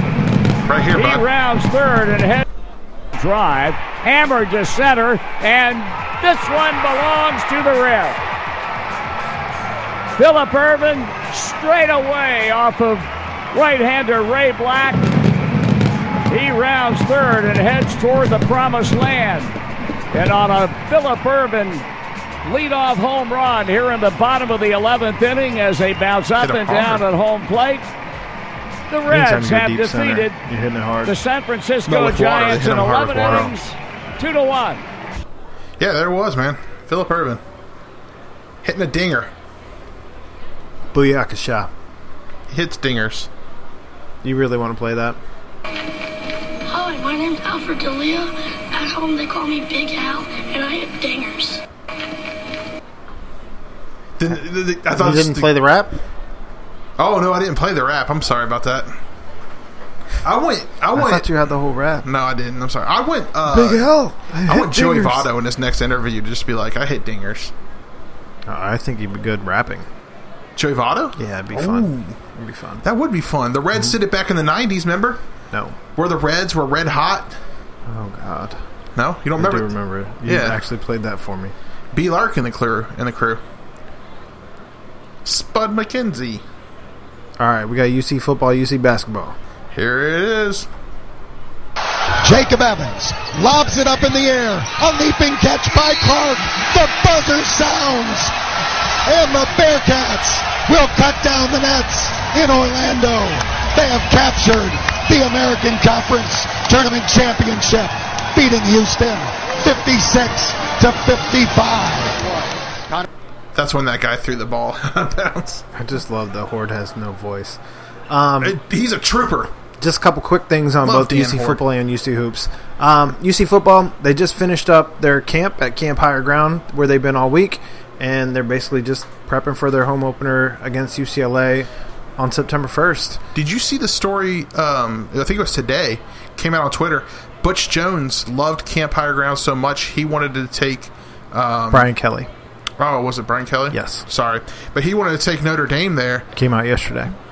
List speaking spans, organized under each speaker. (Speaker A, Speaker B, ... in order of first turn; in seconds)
Speaker A: 0.7-1.2, 26.4-27.1, 31.9-33.5, 35.8-37.4, 38.6-39.3, 42.5-43.3, 54.2-55.5, 57.0-58.9, 60.2-61.3, 62.0-63.9, 64.5-67.5, 70.5-72.2, 72.8-75.2, 76.0-77.4, 79.0-79.7, 80.2-80.6, 81.9-83.4, 85.2-86.4, 89.7-90.7, 113.5-115.6, 118.4-119.5, 120.8-121.6, 133.3-141.9, 142.8-146.3
Speaker B: 0.9-2.5, 3.1-8.2, 10.2-15.0, 16.3-19.6, 20.1-21.9, 22.4-27.9, 28.9-30.4, 31.1-34.8
Speaker C: 29.1-31.1, 40.9-41.7, 44.2-45.2, 54.9-56.0, 60.9-62.0, 63.5-65.2, 68.5-69.9, 71.2-72.8, 75.5-75.8, 77.8-78.6, 79.3-81.5, 87.4-89.3, 115.7-117.6, 118.1-118.6, 119.8-133.2, 141.7-142.3, 143.7-144.1, 146.3-147.1
Speaker D: 46.7-51.6
Speaker E: 92.2-98.3, 99.0-112.2